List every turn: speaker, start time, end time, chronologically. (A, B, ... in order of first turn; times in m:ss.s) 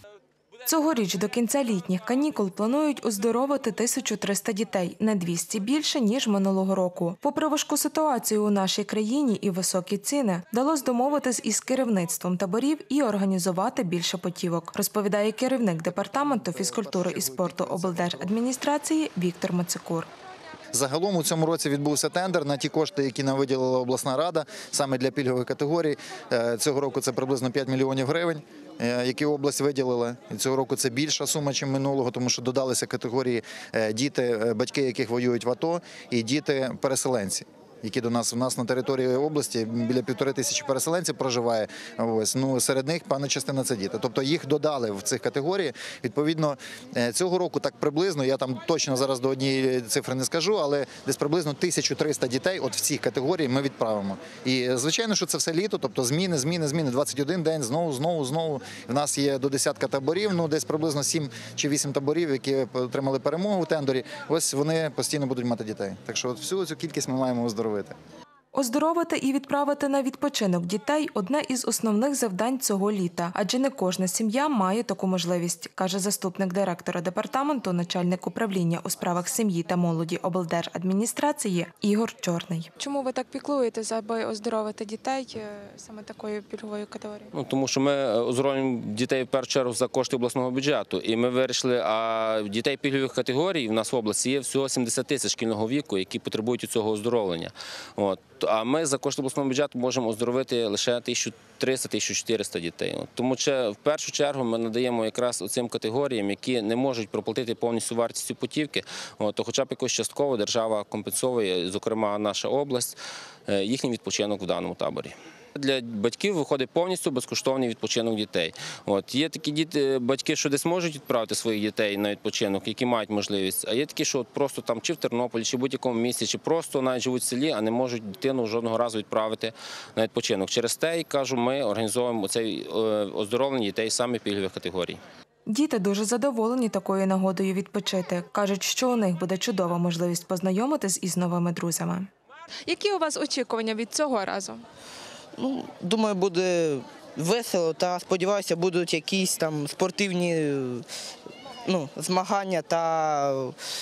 0:00.7-0:20.1 A
0:15.9-0:18.3 B
0:20.7-1:07.9 B
1:08.5-1:22.7 A
1:22.8-1:27.3 C
1:27.3-1:53.0 D
1:53.5-2:15.0 D
2:15.5-2:22.1 A
2:22.7-2:24.6 C
2:25.4-2:30.9 E
2:31.7-2:33.6 E